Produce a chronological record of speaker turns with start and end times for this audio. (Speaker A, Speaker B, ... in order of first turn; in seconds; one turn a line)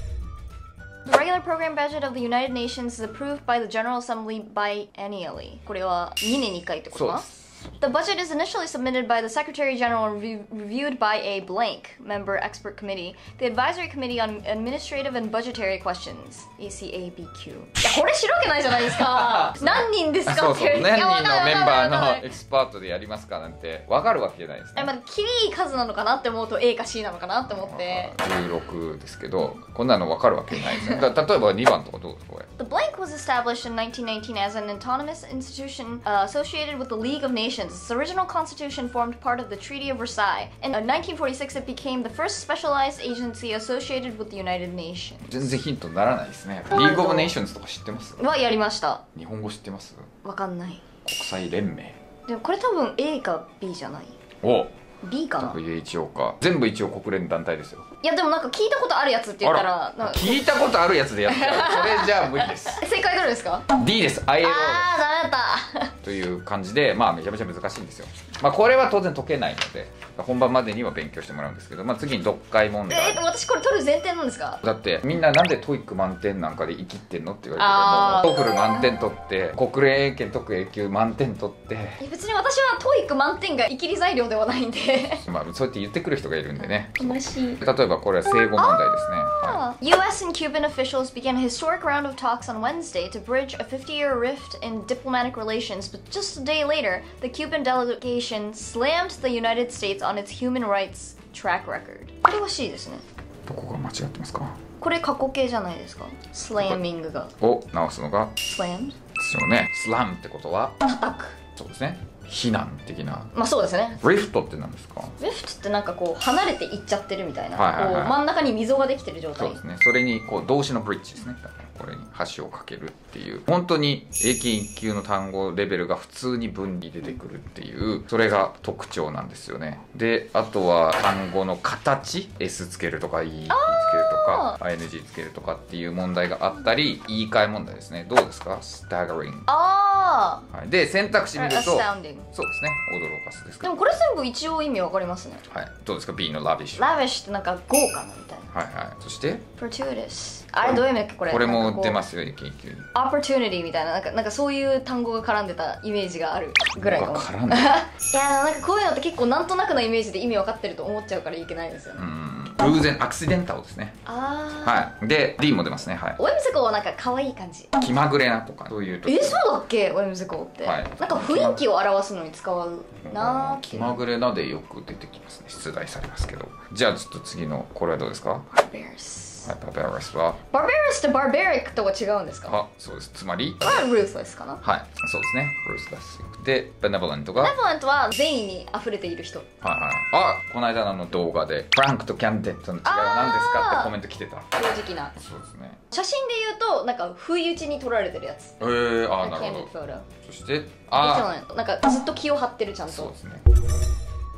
Speaker A: 1.1-7.3
Speaker B: 6.9-7.7
Speaker A: 7.8-22.2
Speaker B: 18.9-24.9
Speaker A: 24.8-28.1
Speaker B: 27.5-32.5
Speaker A: 30.6-31.0
Speaker A: 32.6-45.4
Speaker B: 45.2-48.2
Speaker A: 46.7-47.3
Speaker A: 48.2-49.0
Speaker B: 49.1-50.1
Speaker A: 50.2-50.8
Speaker B: 51.0-52.0
Speaker A: 52.3-54.1
Speaker B: 54.4-54.7
Speaker A: 55.0-55.6
Speaker B: 55.4-57.9
Speaker A: 58.0-60.5
Speaker B: 59.4-62.8
Speaker A: 61.3-63.7
Speaker B: 63.7-65.0
Speaker A: 64.4-65.9
Speaker B: 66.0-73.2
Speaker A: 72.9-74.6
Speaker B: 74.6-82.0
Speaker A: 77.6-79.0
Speaker A: 82.0-85.2
Speaker B: 85.2-89.6
Speaker A: 86.6-87.6
Speaker A: 88.3-103.0
Speaker B: 103.5-104.6
Speaker A: 104.8-107.3
Speaker B: 107.4-108.4
Speaker A: 108.4-109.0
Speaker B: 109.1-110.8
Speaker A: 110.8-111.4
Speaker B: 111.5-113.3
Speaker A: 113.3-114.0
Speaker B: 114.0-115.2
Speaker A: 115.2-119.6
Speaker B: 117.5-118.2
Speaker B: 119.3-139.5
Speaker A: 133.5-134.6
Speaker A: 139.5-140.5
Speaker B: 140.5-143.7
Speaker A: 141.3-142.3
Speaker A: 143.6-145.4
Speaker B: 145.5-146.9
Speaker A: 146.8-148.5
Speaker B: 148.5-149.4
Speaker A: 149.6-152.0
Speaker B: 150.6-152.9
Speaker A: 152.9-162.0
Speaker B: 156.8-157.8
Speaker B: 162.0-164.0
Speaker A: 164.1-164.8
Speaker B: 164.6-166.2
Speaker A: 166.2-167.8
Speaker B: 167.8-169.5
Speaker A: 169.1-174.0
Speaker B: 170.6-171.6
Speaker B: 173.0-178.5
Speaker A: 178.5-179.5
Speaker B: 179.4-180.4
Speaker A: 180.5-182.5
Speaker B: 182.4-183.9
Speaker A: 183.6-184.6
Speaker B: 184.6-187.6
Speaker A: 187.4-189.5
Speaker B: 189.6-194.5
Speaker A: 192.8-193.9
Speaker A: 194.5-195.1
Speaker B: 195.1-195.8
Speaker A: 195.9-200.1
Speaker B: 198.6-199.7
Speaker B: 200.2-201.3
Speaker A: 200.9-203.1
Speaker B: 202.9-203.4